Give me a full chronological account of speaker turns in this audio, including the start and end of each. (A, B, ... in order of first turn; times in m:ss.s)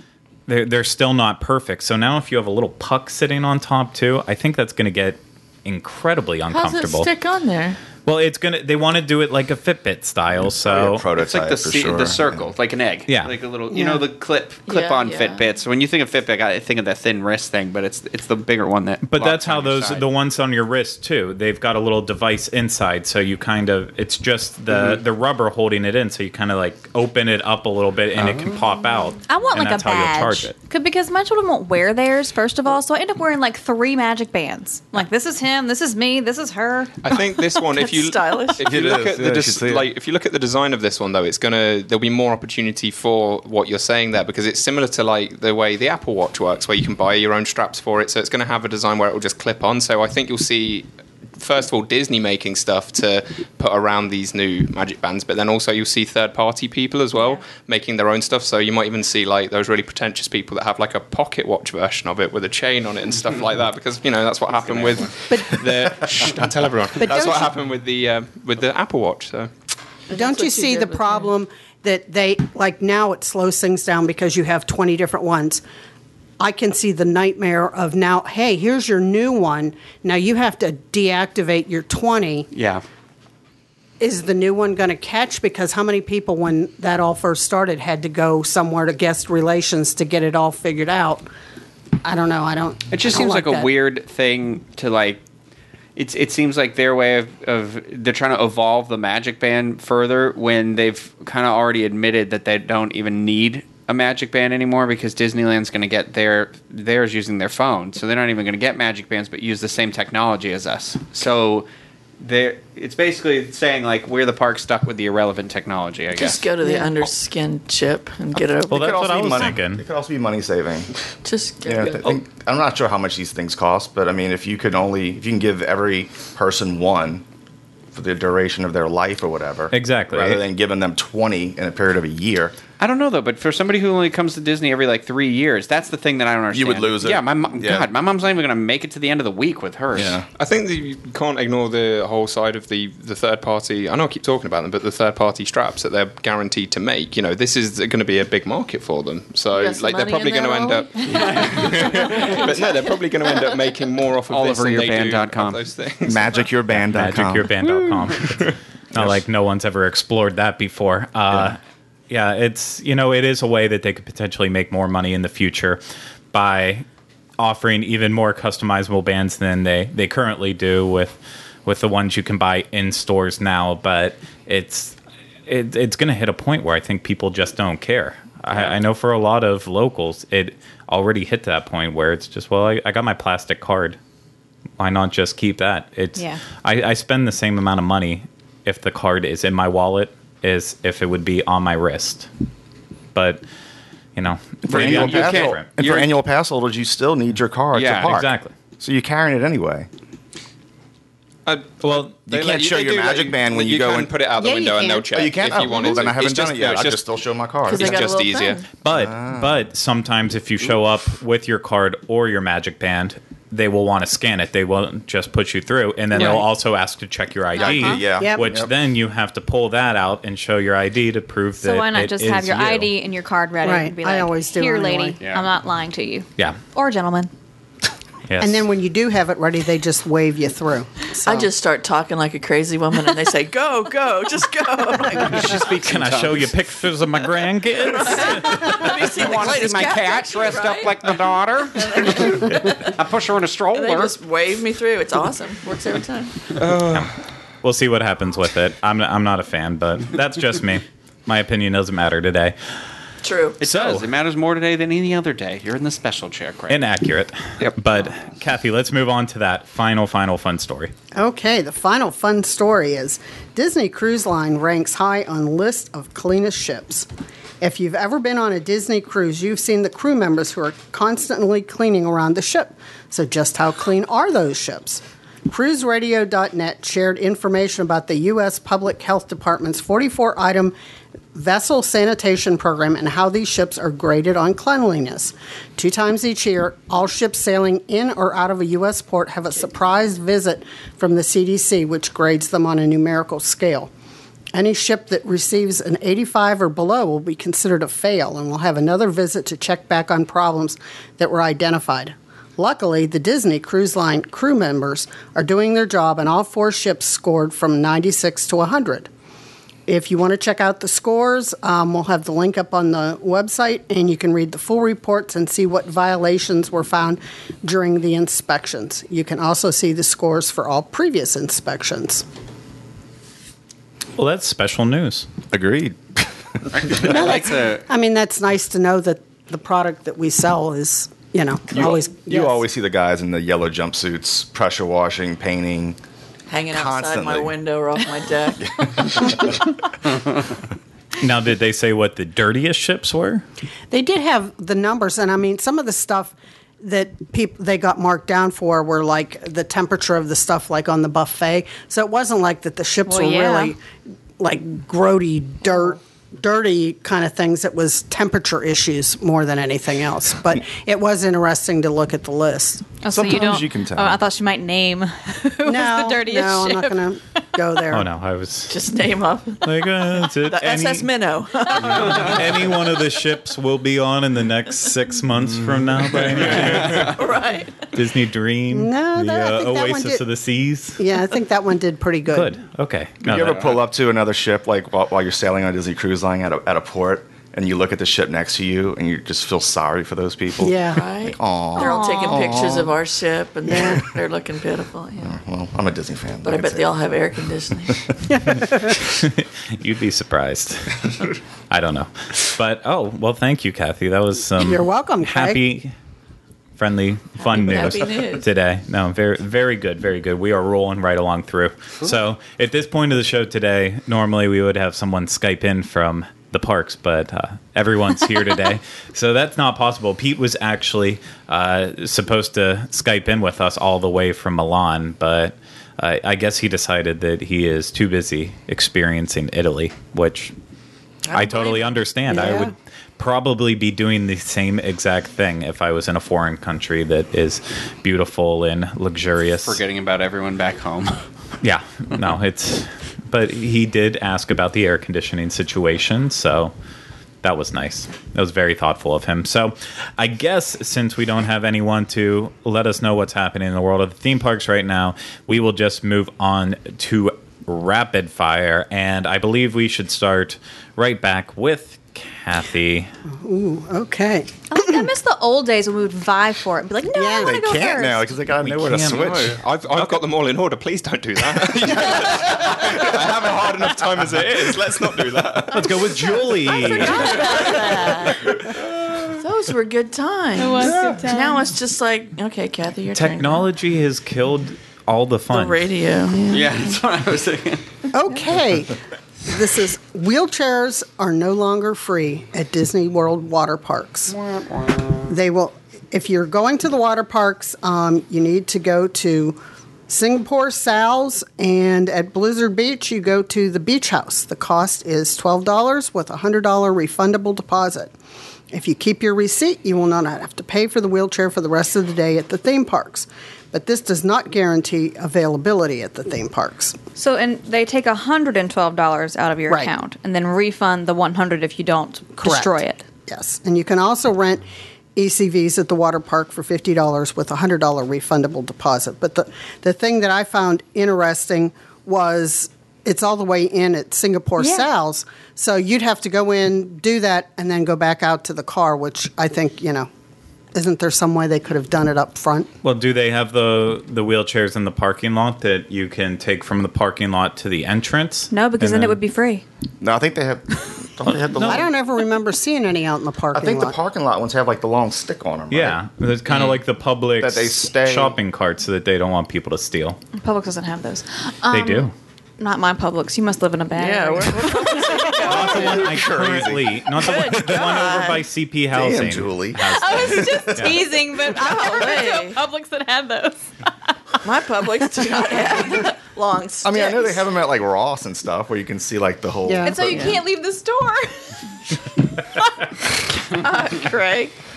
0:00.5-0:07.1 A
0:06.5-0:07.8 B
0:08.1-0:11.0 A
0:10.6-0:12.5 C
0:11.2-0:20.1 D
0:13.1-0:13.3 A
0:13.7-0:14.0 E
0:14.7-0:15.4 B
0:19.0-0:30.6 A
0:28.2-0:28.5 D
0:29.3-0:37.0 F
0:37.0-1:09.5 G
0:37.1-0:38.7 B
0:38.6-0:39.9 C
0:57.2-0:57.4 F
1:04.5-1:05.1 D
1:05.3-1:05.6 E
1:07.0-1:07.5 E
1:10.1-1:11.3 B
1:10.1-1:15.6 E
1:16.4-1:22.5 E
1:22.5-1:22.8 D
1:24.0-1:31.3 E
1:32.0-1:33.7 E
1:32.9-1:35.2 D
1:36.0-1:51.7 D
1:52.2-1:56.4 D
1:56.2-1:59.0 B
1:56.6-1:56.9 E
1:58.7-2:00.9 C
1:58.7-1:59.8 A
2:01.2-2:02.2 B
2:01.6-2:07.2 C
2:07.9-2:12.6 C
2:09.7-2:10.4 A
2:12.8-2:20.2 D
2:16.5-2:17.9 C
2:19.9-2:20.3 C
2:20.4-2:36.5 G
2:29.5-2:32.9 B
2:34.3-2:35.6 D
2:36.0-2:37.5 C
2:36.9-2:41.6 A
2:37.9-2:38.6 G
2:42.1-2:45.8 A
2:46.3-2:46.8 A
2:47.4-2:55.0 A
2:55.5-3:04.0 A
3:04.8-3:12.3 A
3:06.2-3:06.4 F
3:13.2-3:13.4 A
3:14.2-3:15.7 A
3:14.6-3:18.3 C
3:14.7-3:16.1 D
3:17.7-3:18.2 D
3:18.1-3:18.5 A
3:18.8-3:19.9 C
3:21.5-3:27.0 G
3:21.8-3:22.1 A
3:22.3-3:24.1 C
3:24.4-3:25.1 E
3:25.1-3:28.1 C
3:25.6-3:25.9 E
3:27.7-3:28.6 B
3:27.7-3:28.6 G
3:28.8-3:42.9 A
3:28.9-3:29.6 C
3:36.1-3:36.4 D
3:37.6-3:38.0 F
3:37.6-3:38.7 C
3:41.6-3:47.3 F
3:43.6-3:45.2 E
3:45.2-3:45.5 D
3:48.3-3:48.6 A
3:48.4-3:51.5 E
3:51.2-3:55.8 B
3:55.5-3:58.6 A
3:55.5-3:56.5 D
3:57.8-4:01.2 B
3:58.2-4:04.1 D
4:01.8-4:02.8 B
4:03.7-4:06.4 B
4:06.6-4:07.1 G
4:07.6-4:12.6 A
4:13.2-4:13.6 B
4:13.6-4:16.8 D
4:13.6-4:14.1 A
4:16.7-4:20.9 A
4:21.2-4:27.1 E
4:27.6-4:40.8 E
4:41.3-4:53.9 E
4:54.5-5:09.1 E
5:09.9-5:22.2 E
5:24.2-5:25.3 A
5:25.5-5:27.3 C
5:26.7-5:27.9 D
5:27.1-5:32.6 E
5:31.7-5:36.0 C
5:36.5-5:39.1 B
5:36.7-5:37.6 C
5:38.8-5:39.6 C
5:41.2-5:43.4 A
5:43.9-5:53.8 E
5:53.1-5:53.7 F
5:54.4-6:02.9 E
6:03.0-6:07.5 F
6:03.1-6:04.2 C
6:05.6-6:08.1 E
6:07.9-6:08.8 A
6:08.7-6:12.6 B
6:09.6-6:11.1 A
6:11.9-6:17.1 A
6:16.3-6:17.9 B
6:17.9-6:21.0 A
6:18.7-6:20.2 E
6:21.0-6:22.5 E
6:22.3-6:23.7 A
6:23.2-6:32.9 C
6:30.6-6:31.0 E
6:30.9-6:35.4 B
6:31.8-6:32.6 F
6:33.7-6:34.0 E
6:35.2-6:37.0 C
6:36.4-6:38.0 B
6:38.3-6:39.0 E
6:38.9-6:41.1 A
6:41.7-6:45.9 A
6:44.6-6:45.6 E
6:46.8-7:10.5 A
6:47.4-6:48.5 B
7:11.3-7:12.0 B
7:11.3-7:19.8 A
7:12.3-7:12.7 E
7:19.6-7:21.2 D
7:21.6-7:26.7 A
7:27.4-7:43.1 A
7:43.3-7:45.1 E
7:44.7-7:48.3 F
7:47.2-7:47.6 E
7:47.4-7:49.6 C
7:48.6-7:50.2 A
7:49.0-7:56.2 G
7:55.7-7:57.5 A
7:55.9-7:58.6 B
7:57.3-7:57.9 F
7:58.5-7:59.2 G
7:59.4-8:03.7 B
8:00.6-8:01.7 F
8:03.1-8:05.9 A
8:05.5-8:07.0 B
8:06.5-8:07.8 D
8:08.1-8:14.4 E
8:14.3-8:15.3 D
8:15.3-8:19.6 E
8:20.1-8:28.1 E
8:28.7-8:37.0 E
8:37.2-8:43.0 F
8:42.4-9:00.1 E
8:54.6-8:54.9 F
9:00.7-9:02.7 E
9:02.8-9:09.2 A
9:08.5-9:09.6 F
9:10.0-9:11.9 C
9:11.4-9:11.8 A
9:11.6-9:14.0 E
9:13.5-9:16.0 C
9:15.7-9:20.2 A
9:17.4-9:18.4 C
9:20.4-9:25.8 F
9:21.7-9:22.1 A
9:23.9-9:26.3 B
9:25.4-9:31.0 A
9:25.8-9:27.0 C
9:27.1-9:28.5 B
9:28.9-9:30.9 C
9:29.8-9:34.1 F
9:31.4-9:32.6 B
9:34.4-9:37.5 B
9:36.8-9:40.4 C
9:39.7-9:40.1 E
9:39.8-9:42.0 F
9:40.1-9:40.4 B
9:43.5-9:44.5 B